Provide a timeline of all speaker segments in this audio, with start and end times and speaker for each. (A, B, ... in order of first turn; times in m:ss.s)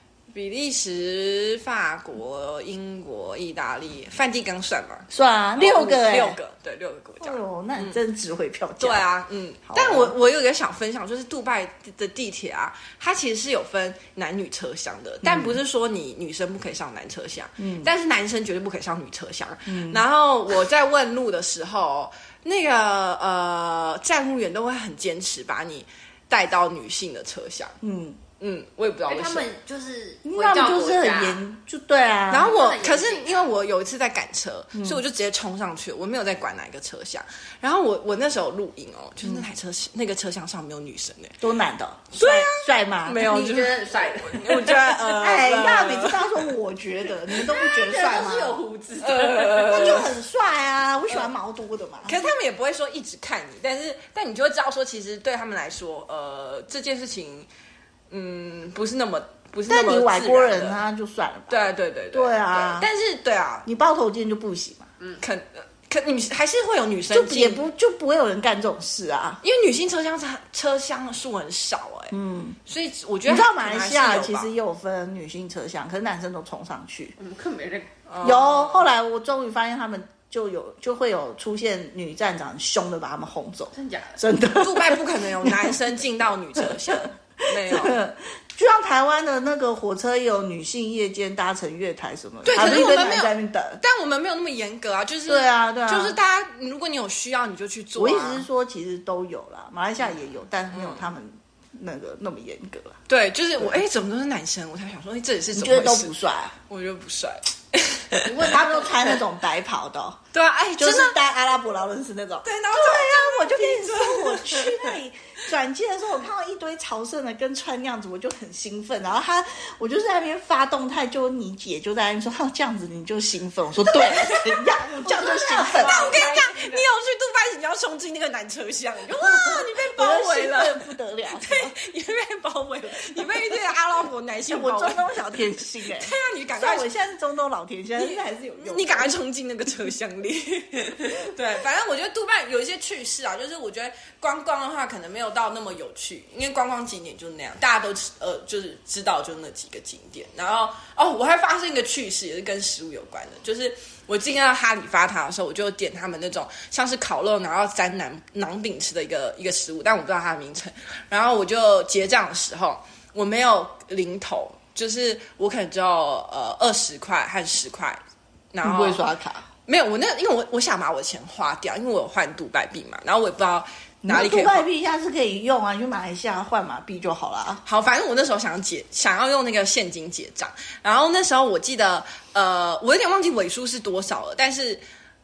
0:00.3-0:08.0 A
0:05.1-0:06.4 B
0:07.2-0:09.1 B
0:08.8-0:27.8 A
0:09.7-0:10.1 B
0:15.2-0:15.6 B
0:17.6-0:17.9 B
0:19.7-0:20.0 B
0:27.8-0:28.2 B
0:28.4-0:29.5 A
0:29.1-0:31.4 C
0:30.2-0:32.5 B
0:32.3-0:41.4 A
0:32.3-0:33.4 C
0:34.7-0:35.0 B
0:41.4-0:43.3 B
0:42.1-0:46.5 A
0:43.2-0:45.1 C
0:45.2-0:48.6 B
0:47.5-0:50.0 C
0:49.0-0:50.0 A
0:49.7-0:52.2 B
0:52.1-0:57.5 A
0:58.1-1:00.8 A
0:59.7-1:02.9 B
1:01.5-1:03.7 A
1:03.6-1:04.9 B
1:05.2-1:07.6 A
1:07.1-1:09.4 B
1:09.4-1:12.2 A
1:12.1-1:12.6 B
1:12.7-1:14.5 A
1:13.3-1:17.2 B
1:17.2-1:17.9 C
1:18.1-1:18.9 A
1:18.2-1:25.8 B
1:23.7-1:24.2 C
1:24.6-1:28.0 A
1:26.6-1:33.8 B
1:32.4-1:38.5 A
1:35.3-1:36.2 B
1:38.0-1:43.0 B
1:40.7-1:41.1 A
1:43.1-1:46.1 A
1:45.6-1:46.6 B
1:46.7-1:48.4 A
1:48.2-1:49.2 C
1:48.5-1:50.2 B
1:50.3-1:51.2 A
1:50.8-2:06.2 B
1:52.4-1:54.9 A
2:04.0-2:04.5 A
2:04.9-2:06.8 C
2:05.8-2:10.9 A
2:09.1-2:11.7 B
2:11.4-2:15.3 A
2:13.2-2:13.5 B
2:14.5-2:19.1 B
2:15.9-2:16.9 A
2:18.0-2:48.0 A
2:48.5-2:49.0 A
2:48.6-2:49.4 B
2:49.7-2:54.7 A
2:54.0-2:57.6 B
2:57.6-3:04.8 A